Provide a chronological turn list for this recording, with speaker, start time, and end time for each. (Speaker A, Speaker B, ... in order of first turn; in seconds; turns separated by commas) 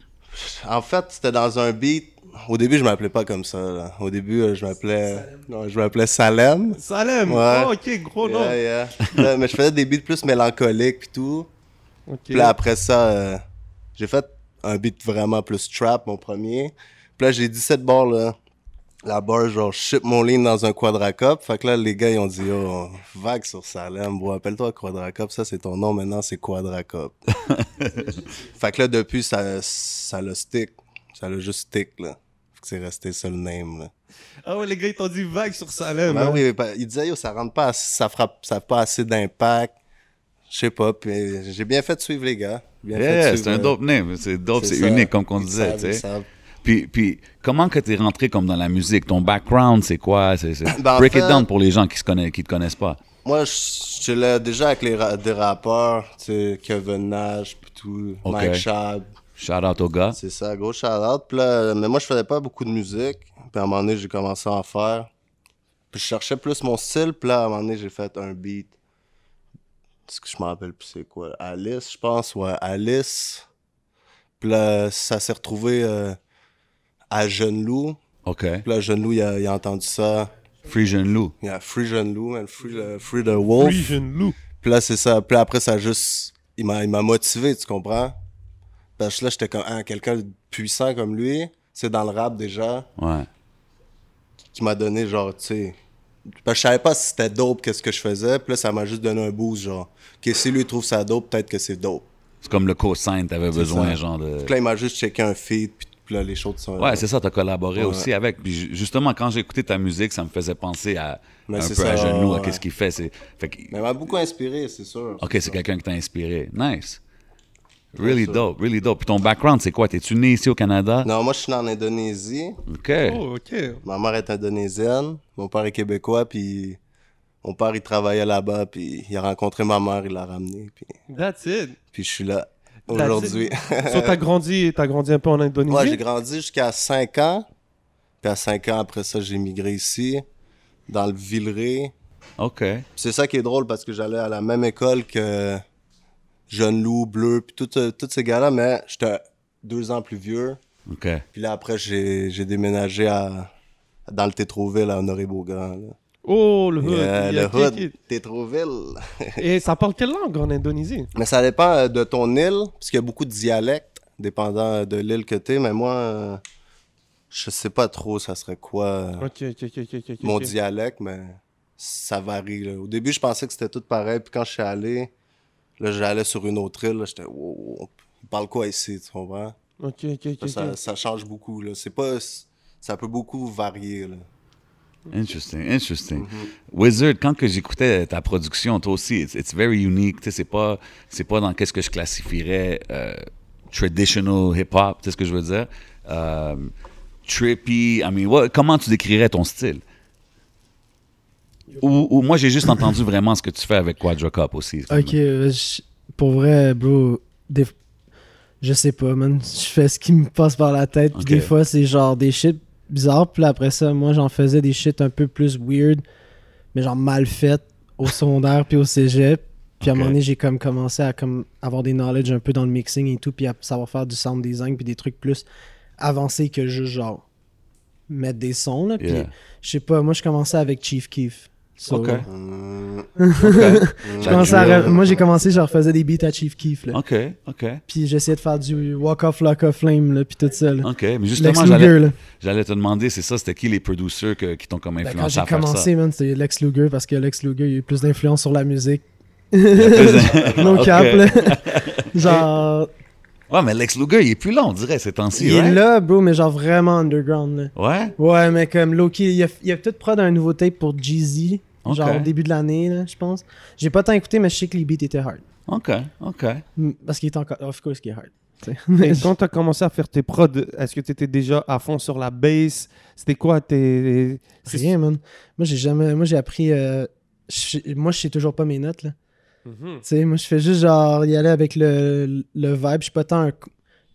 Speaker A: 0.3-11.5, Speaker B: 6.7-8.6, Speaker B: 12.1-12.5, Speaker A: 12.3-13.4, Speaker A: 13.9-18.4, Speaker A: 19.0-27.1, Speaker A: 28.4-33.9, Speaker B: 34.4-36.4, Speaker A: 36.1-39.7, Speaker A: 40.5-43.8, Speaker C: 42.9-46.0, Speaker A: 44.5-46.3, Speaker C: 46.6-53.0, Speaker A: 50.6-51.5, Speaker A: 53.2-59.1, Speaker C: 58.2-58.6, Speaker C: 59.4-60.2, Speaker A: 60.1-65.1, Speaker A: 65.9-68.7, Speaker A: 70.1-73.5, Speaker A: 74.4-76.2, Speaker A: 77.1-78.0, Speaker C: 78.2-78.6, Speaker A: 78.6-80.3, Speaker C: 80.7-81.3, Speaker A: 81.4-84.0, Speaker B: 83.6-84.4, Speaker A: 84.6-88.2, Speaker A: 89.0-92.9, Speaker C: 93.0-93.3, Speaker A: 94.5-95.8, Speaker A: 96.4-102.1, Speaker C: 102.4-104.5, Speaker A: 103.5-107.0, Speaker C: 106.8-113.7, Speaker A: 107.8-108.1, Speaker A: 111.5-112.6, Speaker A: 113.7-115.6, Speaker C: 115.2-117.0, Speaker C: 117.9-121.1, Speaker A: 118.0-118.4, Speaker A: 121.0-122.6, Speaker C: 122.7-123.2, Speaker B: 123.0-123.8, Speaker A: 123.8-126.8, Speaker A: 127.4-130.9, Speaker B: 131.1-131.8, Speaker A: 131.9-134.2, Speaker B: 132.9-136.0, Speaker A: 135.7-137.4, Speaker A: 138.2-140.2, Speaker A: 140.9-141.9, Speaker C: 142.4-142.8, Speaker A: 142.9-145.6, Speaker A: 146.5-150.6, Speaker C: 150.9-151.2, Speaker A: 151.3-153.5, Speaker A: 154.1-155.9, Speaker B: 156.2-157.9, Speaker A: 156.8-159.4, Speaker B: 159.4-161.1, Speaker A: 161.1-166.4, Speaker A: 167.3-169.3, Speaker B: 169.2-170.5, Speaker A: 170.2-175.1, Speaker A: 175.8-179.6, Speaker B: 179.8-180.7, Speaker A: 180.4-184.2, Speaker C: 185.1-196.7, Speaker A: 186.1-186.5, Speaker C: 197.2-199.8, Speaker C: 201.8-205.1, Speaker D: 204.9-207.7, Speaker D: 208.6-216.0, Speaker C: 211.1-211.5, Speaker D: 216.7-225.4, Speaker C: 219.8-220.2, Speaker D: 226.0-227.2, Speaker D: 228.1-232.3, Speaker C: 229.0-229.3, Speaker C: 231.9-232.3, Speaker A: 232.3-233.1, Speaker D: 233.2-237.0, Speaker C: 233.4-235.0, Speaker A: 234.0-235.2, Speaker C: 236.9-237.8, Speaker D: 237.9-242.2, Speaker C: 240.8-245.9, Speaker D: 245.0-252.9, Speaker C: 249.8-252.4, Speaker A: 250.1-251.2, Speaker C: 253.5-255.8, Speaker D: 255.3-265.4, Speaker C: 257.8-258.1, Speaker C: 261.8-262.3, Speaker C: 265.7-266.6, Speaker D: 266.8-269.3, Speaker B: 269.0-274.9, Speaker D: 274.6-279.1, Speaker B: 279.6-280.0, Speaker D: 280.0-283.7